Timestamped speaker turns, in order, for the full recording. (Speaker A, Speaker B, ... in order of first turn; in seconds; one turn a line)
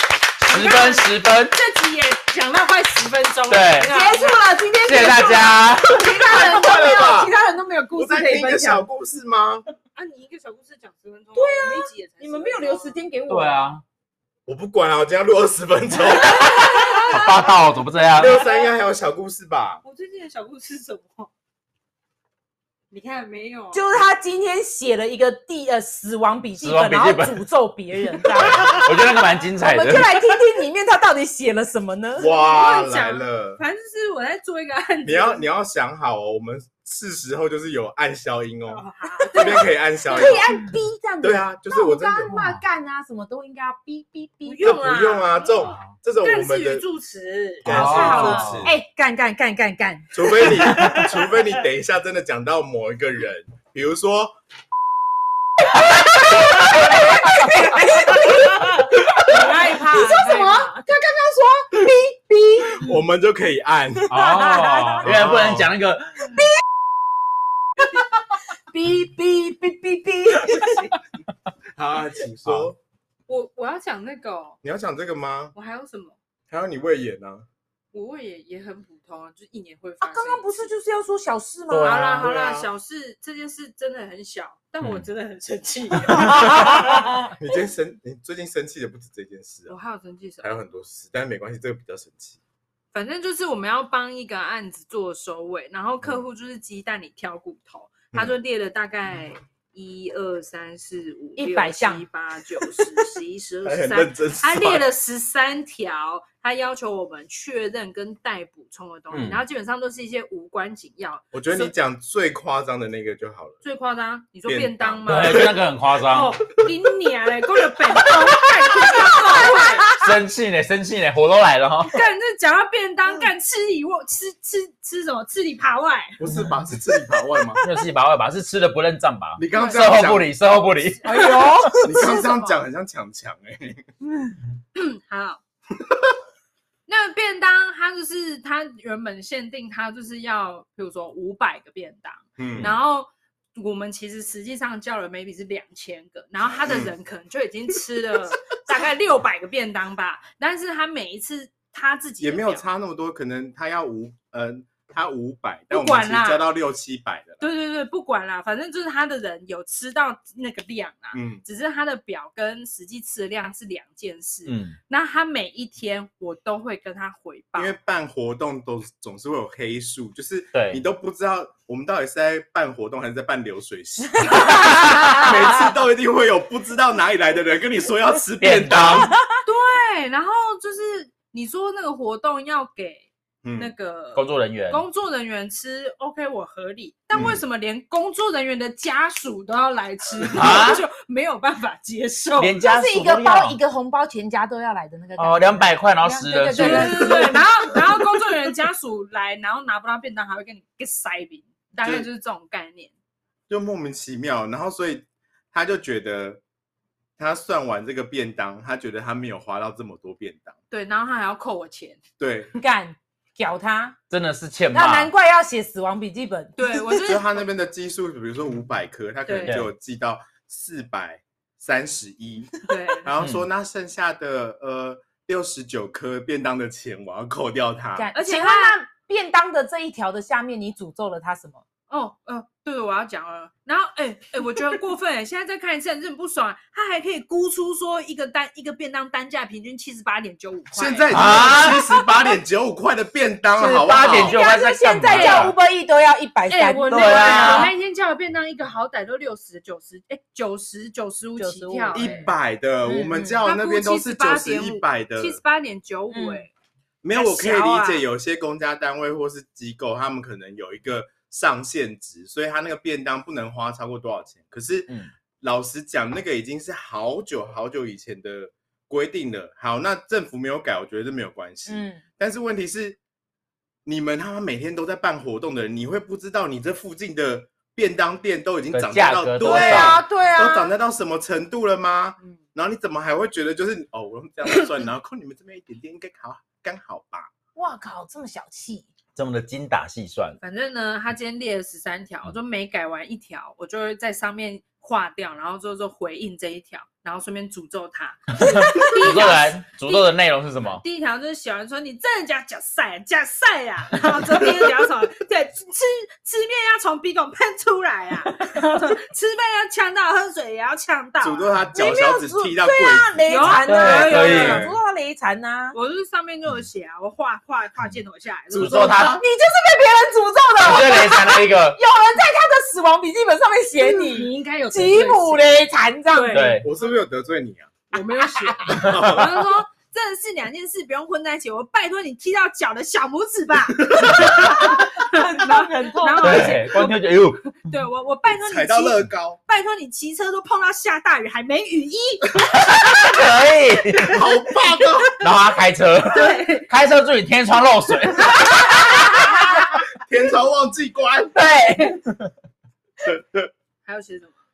Speaker A: 0.4-1.5
Speaker B: 0.5-4.4
Speaker A: 3.5-3.9
Speaker C: 3.9-8.8
Speaker A: 4.8-6.0
Speaker B: 5.8-6.9
Speaker D: 5.8-7.3
Speaker D: 7.9-9.6
Speaker B: 9.9-13.0
Speaker C: 11.3-13.7
Speaker A: 13.3-13.8
Speaker D: 14.4-17.1
Speaker A: 17.1-18.3
Speaker D: 18.1-19.8
Speaker B: 18.2-18.7
Speaker B: 19.8-21.3
Speaker B: 22.9-23.8
Speaker C: 23.7-28.9
Speaker A: 26.5-27.4
Speaker A: 28.3-30.1
Speaker C: 29.6-32.3
Speaker D: 32.2-33.6
Speaker B: 32.2-35.5
Speaker D: 35.0-40.6
Speaker B: 38.6-39.7
Speaker C: 39.3-44.7
Speaker D: 41.2-42.4
Speaker A: 42.3-42.6
Speaker B: 44.4-48.6
Speaker D: 44.6-46.9
Speaker A: 45.6-45.9
Speaker D: 47.6-48.7
Speaker A: 47.7-48.7
Speaker C: 48.0-50.8
Speaker D: 50.1-54.4
Speaker C: 56.9-62.8
Speaker B: 59.3-60.7
Speaker D: 62.7-64.2
Speaker A: 64.1-66.4
Speaker C: 64.1-65.1
Speaker D: 65.0-65.7
Speaker C: 68.7-70.9
Speaker D: 71.8-72.8
Speaker B: 73.3-74.6
Speaker D: 74.6-75.5
Speaker B: 75.5-76.2
Speaker D: 76.5-77.5
Speaker B: 77.9-80.7
Speaker C: 80.0-82.2
Speaker A: 81.7-82.2
Speaker B: 81.8-87.1
Speaker D: 82.2-82.7
Speaker C: 86.2-87.1
Speaker D: 87.3-89.8
Speaker B: 89.7-90.5
Speaker D: 90.4-92.4
Speaker B: 92.9-111.7
Speaker C: 101.3-102.0
Speaker D: 103.6-104.9
Speaker A: 109.1-109.4
Speaker D: 111.3-113.6
Speaker B: 113.6-120.0
Speaker D: 114.5-115.5
Speaker A: 115.1-116.3
Speaker A: 119.9-121.9
Speaker B: 121.8-126.2
Speaker D: 126.2-127.6
Speaker A: 127.6-131.0
Speaker D: 129.4-130.3
Speaker B: 129.5-130.2
Speaker B: 131.0-132.6
Speaker C: 131.1-132.1
Speaker D: 131.8-133.8
Speaker B: 134.8-135.4
Speaker B: 136.9-152.7
Speaker D: 142.4-142.7
Speaker D: 146.6-146.9
Speaker D: 152.2-157.5
Speaker B: 155.7-156.5
Speaker B: 157.4-167.7
Speaker D: 161.1-161.4
Speaker A: 164.4-164.8
Speaker D: 167.6-179.1
Speaker A: 170.5-170.8
Speaker A: 178.4-179.1
Speaker B: 179.4-192.6
Speaker D: 183.4-183.7
Speaker A: 184.2-184.8
Speaker D: 187.1-187.4
Speaker A: 190.3-190.8
Speaker A: 192.4-193.6
Speaker C: 192.6-197.4
Speaker A: 195.2-196.7
Speaker B: 196.5-202.9
Speaker D: 196.6-197.4
Speaker D: 201.8-202.1
Speaker D: 203.5-206.4
Speaker D: 207.2-210.5
Speaker B: 210.7-212.0
Speaker D: 212.2-212.5
Speaker C: 212.6-213.9
Speaker A: 214.1-215.1
Speaker C: 214.7-217.0
Speaker B: 216.6-217.4
Speaker D: 217.0-222.5
Speaker B: 219.2-219.6
Speaker A: 219.4-219.7
Speaker B: 222.7-223.1
Speaker D: 223.0-228.1
Speaker C: 228.0-231.6
Speaker B: 228.1-228.8
Speaker B: 231.9-242.3
Speaker D: 240.7-244.4
Speaker A: 241.1-241.8
Speaker A: 243.5-245.6
Speaker C: 244.1-247.7
Speaker B: 245.1-245.5
Speaker B: 246.5-252.2
Speaker A: 246.9-247.7
Speaker C: 251.4-252.3
Speaker D: 251.9-255.4
Speaker C: 252.8-253.4
Speaker B: 253.4-256.5
Speaker C: 256.1-256.4
Speaker D: 257.0-273.0
Speaker B: 257.1-258.1
Speaker C: 271.7-272.0
Speaker D: 273.8-287.3
Speaker A: 278.7-280.0
Speaker C: 279.4-280.7
Speaker C: 287.5-288.9
Speaker A: 289.1-290.4
Speaker B: 290.4-300.1
Speaker A: 298.5-300.8
Speaker B: 300.6-311.6
Speaker D: 311.2-313.5
Speaker C: 311.7-315.8
Speaker B: 313.3-314.7
Speaker A: 313.6-314.6
Speaker D: 314.2-314.8
Speaker B: 315.7-319.2
Speaker A: 318.5-319.2
Speaker D: 318.5-319.2
Speaker C: 319.1-326.4
Speaker A: 320.6-321.8
Speaker B: 323.8-325.5
Speaker B: 326.1-326.7
Speaker A: 326.3-326.7
Speaker D: 326.6-327.7
Speaker B: 327.9-342.7
Speaker D: 328.7-329.3
Speaker D: 333.9-334.3
Speaker C: 334.4-336.4
Speaker A: 336.2-337.4
Speaker D: 338.4-339.4
Speaker A: 342.6-344.2
Speaker D: 344.1-345.1
Speaker A: 345.2-349.0
Speaker B: 346.1-346.7
Speaker D: 349.4-351.4
Speaker A: 351.4-352.3
Speaker D: 353.0-353.5
Speaker B: 353.8-354.4